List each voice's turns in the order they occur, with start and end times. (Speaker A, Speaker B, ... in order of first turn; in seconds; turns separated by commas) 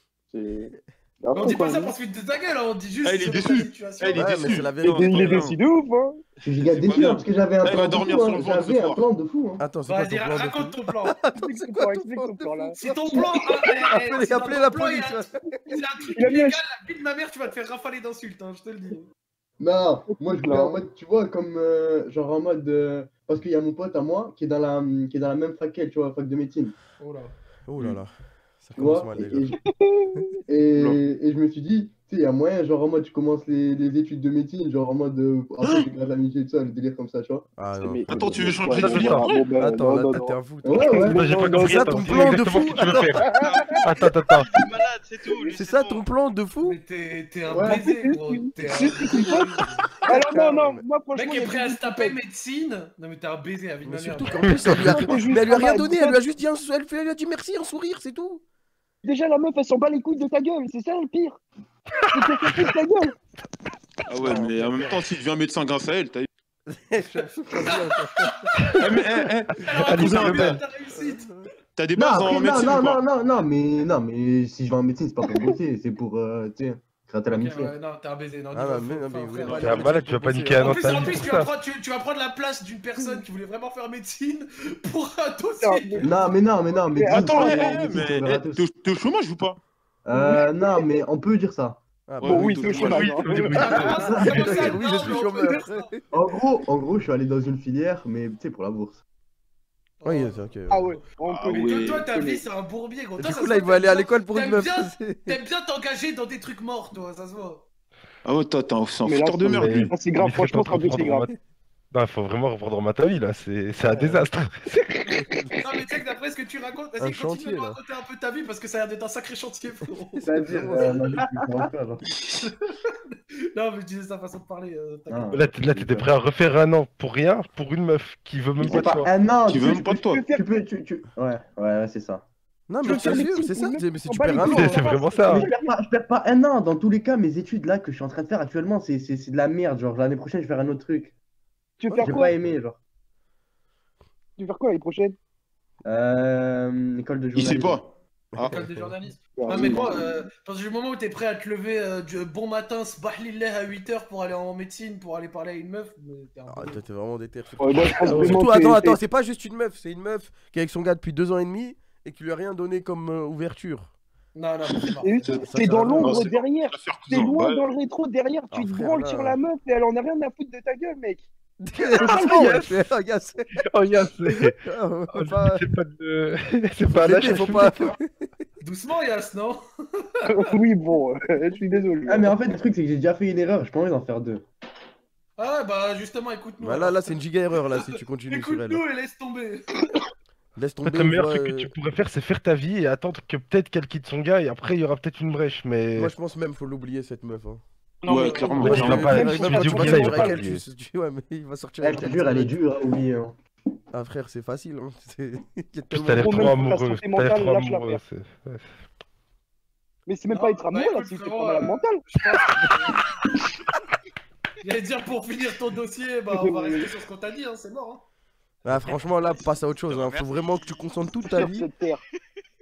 Speaker A: 0.3-1.9, Speaker B: 1.3-4.6, Speaker C: 3.0-5.6, Speaker D: 4.2-5.4, Speaker A: 4.8-6.2, Speaker E: 6.4-9.6, Speaker C: 6.8-9.1, Speaker D: 9.6-13.0, Speaker B: 9.8-11.2, Speaker A: 11.4-13.9, Speaker B: 12.8-19.1, Speaker D: 13.9-15.6, Speaker A: 16.1-16.6, Speaker E: 19.6-26.8, Speaker A: 20.1-20.8, Speaker B: 27.0-27.3, Speaker D: 27.7-29.6, Speaker E: 28.8-29.6, Speaker A: 29.6-30.4, Speaker E: 30.5-37.5, Speaker D: 37.6-38.5, Speaker A: 37.8-42.4, Speaker C: 38.1-39.5, Speaker F: 38.7-39.3, Speaker D: 39.6-43.1, Speaker E: 40.6-41.3, Speaker F: 41.0-43.3, Speaker G: 42.5-46.1, Speaker A: 42.9-43.7, Speaker F: 43.8-44.5, Speaker D: 45.5-46.8, Speaker B: 46.6-49.9, Speaker E: 47.5-47.9, Speaker A: 47.6-49.5, Speaker A: 50.1-52.2, Speaker D: 50.3-50.9, Speaker E: 50.4-50.7, Speaker B: 51.1-54.3, Speaker D: 53.8-58.4, Speaker A: 54.7-56.2, Speaker A: 59.0-61.4, Speaker A: 62.1-63.1, Speaker C: 64.1-66.3, Speaker D: 64.2-65.0, Speaker D: 66.7-68.3, Speaker B: 67.2-67.9, Speaker C: 68.8-70.6, Speaker B: 69.6-71.3, Speaker F: 69.7-70.6, Speaker D: 70.9-71.5, Speaker C: 71.8-73.0, Speaker E: 72.0-77.7, Speaker B: 77.3-80.0, Speaker D: 78.5-81.1, Speaker F: 79.5-81.5, Speaker B: 80.6-86.3, Speaker A: 85.6-86.1, Speaker E: 86.0-88.6, Speaker A: 86.9-88.0, Speaker C: 87.0-89.6, Speaker E: 90.0-91.8, Speaker A: 90.1-90.7, Speaker D: 92.1-96.0, Speaker C: 92.2-94.5, Speaker A: 92.2-94.0, Speaker B: 93.5-95.9, Speaker E: 93.9-94.7, Speaker E: 96.1-99.0, Speaker B: 100.0-100.4, Speaker D: 100.0-100.9, Speaker A: 100.7-102.5, Speaker C: 101.2-102.1, Speaker B: 101.5-107.6, Speaker D: 103.2-105.4, Speaker C: 108.2-109.9, Speaker A: 109.0-111.3, Speaker F: 109.5-111.3, Speaker F: 111.9-114.8, Speaker B: 115.6-120.9, Speaker D: 117.0-117.8, Speaker D: 120.1-121.1, Speaker E: 120.2-122.0, Speaker B: 122.5-123.0, Speaker B: 123.5-125.4, Speaker E: 125.1-126.1, Speaker F: 125.3-129.1, Speaker C: 128.6-130.2, Speaker E: 128.7-132.3, Speaker A: 130.0-130.5, Speaker D: 132.7-135.4, Speaker A: 132.8-135.7, Speaker F: 134.4-135.5, Speaker E: 135.3-141.1, Speaker A: 141.8-142.3, Speaker D: 141.9-142.2, Speaker E: 141.9-142.8, Speaker A: 144.4-145.2, Speaker E: 145.9-147.8, Speaker C: 147.3-148.7, Speaker D: 148.3-148.9, Speaker B: 148.4-156.8, Speaker A: 149.4-150.1, Speaker D: 156.5-163.9, Speaker A: 157.6-159.0, Speaker F: 158.1-158.4, Speaker B: 164.3-165.4, Speaker A: 165.0-171.3, Speaker D: 165.3-166.3, Speaker C: 166.0-167.7, Speaker D: 168.5-169.4, Speaker D: 171.7-173.5, Speaker F: 171.9-172.8, Speaker A: 172.0-172.4, Speaker F: 173.6-174.6, Speaker D: 174.6-175.6, Speaker F: 175.1-177.9, Speaker D: 176.9-178.1, Speaker B: 178.6-180.2, Speaker A: 180.2-182.3, Speaker E: 182.1-184.5, Speaker B: 185.4-187.1, Speaker D: 186.6-188.8, Speaker B: 188.3-189.8, Speaker D: 190.6-191.7, Speaker F: 190.8-196.1, Speaker D: 196.0-197.6, Speaker A: 198.0-200.4, Speaker C: 198.1-199.2, Speaker B: 198.1-198.5, Speaker D: 198.6-202.6, Speaker F: 198.7-200.6, Speaker E: 201.8-203.3, Speaker D: 203.9-206.7, Speaker F: 205.9-208.7, Speaker A: 206.2-208.0, Speaker A: 210.1-212.0, Speaker B: 210.3-213.3, Speaker B: 214.6-218.0, Speaker A: 216.3-216.9, Speaker D: 218.7-221.7, Speaker G: 218.7-221.2, Speaker A: 221.3-222.0